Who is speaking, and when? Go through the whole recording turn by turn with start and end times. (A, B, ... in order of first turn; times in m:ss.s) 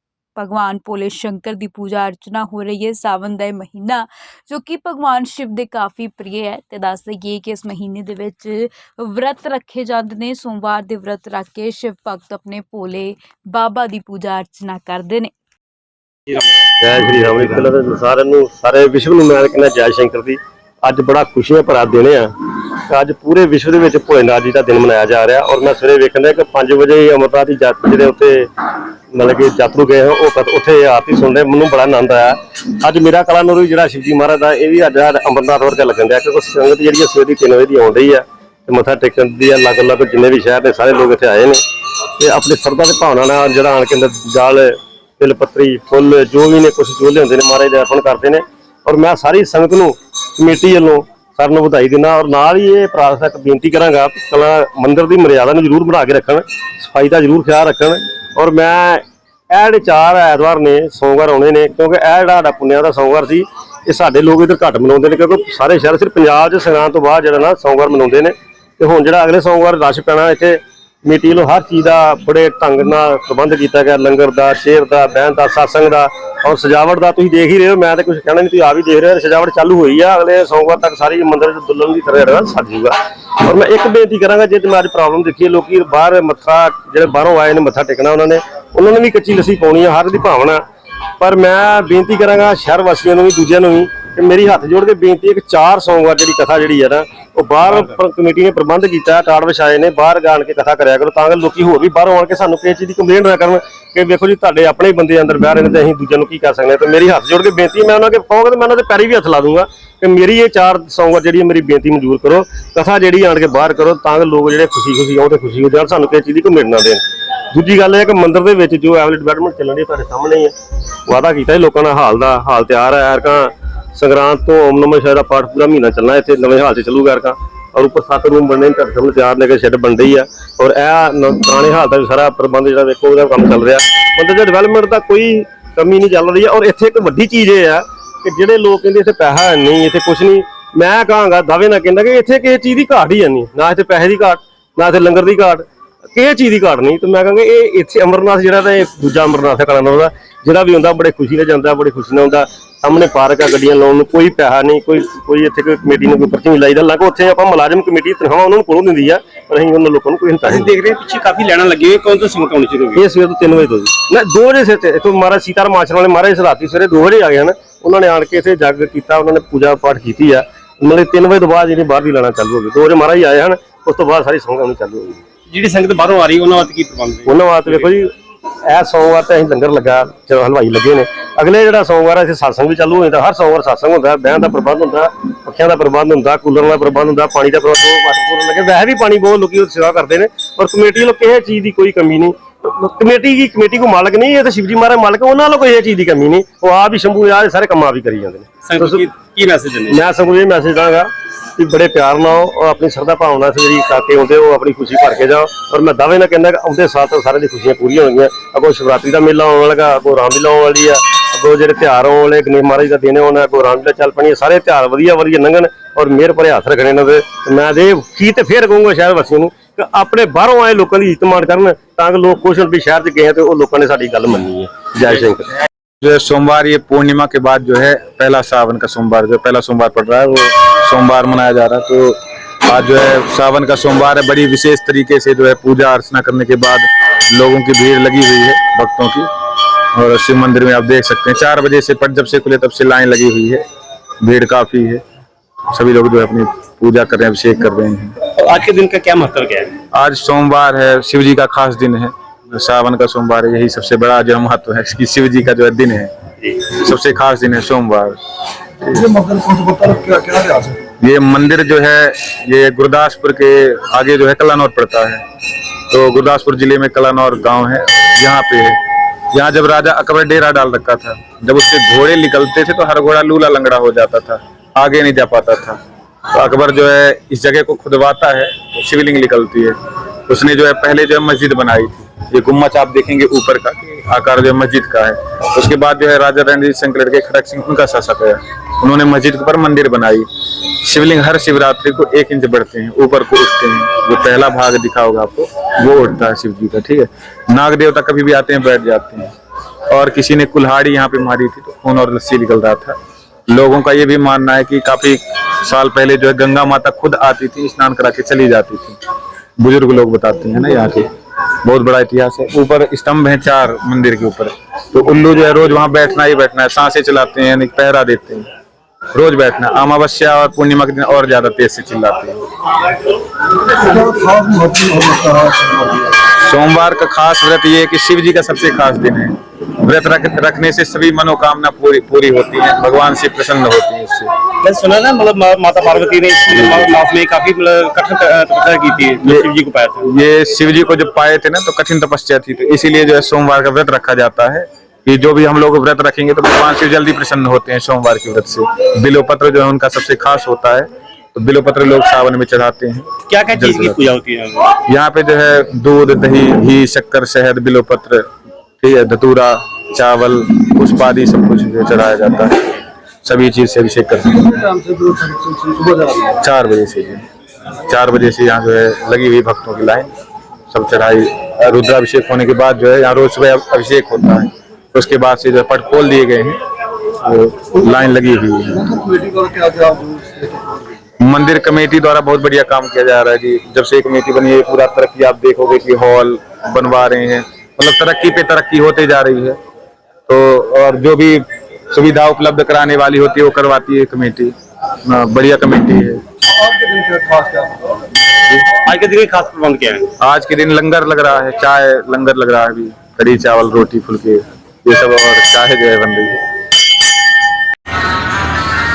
0:00.4-0:15.3 A
0:16.8-0:41.6 B
0:42.2-1:30.6 B
1:31.2-2:00.5 B
2:01.1-2:40.7 B
2:40.5-2:43.0 C
2:42.9-2:55.2 B
2:55.5-2:57.9 C
2:57.2-2:58.1 B
2:58.6-3:19.0 B
3:18.6-3:20.0 C
3:19.9-3:45.5 B
3:46.0-3:59.3 D
3:59.9-4:03.6 D
4:04.2-4:05.0 D
4:05.7-4:08.1 D
4:08.3-4:09.8 C
4:09.9-4:18.2 D
4:18.9-4:20.8 E
4:21.0-4:25.2 D
4:25.9-4:28.8 D
4:29.3-4:35.8 D
4:36.3-4:39.8 D
4:40.3-4:59.3 D
4:59.9-5:03.0 D
5:03.5-5:09.0 D
5:09.6-5:11.1 D
5:11.6-5:18.4 D
5:19.1-5:22.4 D
5:23.8-5:26.1 E
5:26.2-5:34.3 D
5:34.6-5:40.0 C
5:40.0-5:54.0 D
5:53.3-5:54.7 C
5:54.7-5:58.3 D
5:58.8-6:04.5 D
6:04.5-6:06.3 E
6:06.3-6:07.2 D
6:07.8-6:10.1 D
6:10.7-6:16.6 D
6:17.2-6:18.8 D
6:18.8-6:20.9 E
6:21.2-6:29.6 D
6:30.3-6:34.5 D
6:35.0-6:36.2 D
6:36.6-6:38.0 E
6:38.8-6:40.1 C
6:40.2-6:46.4 D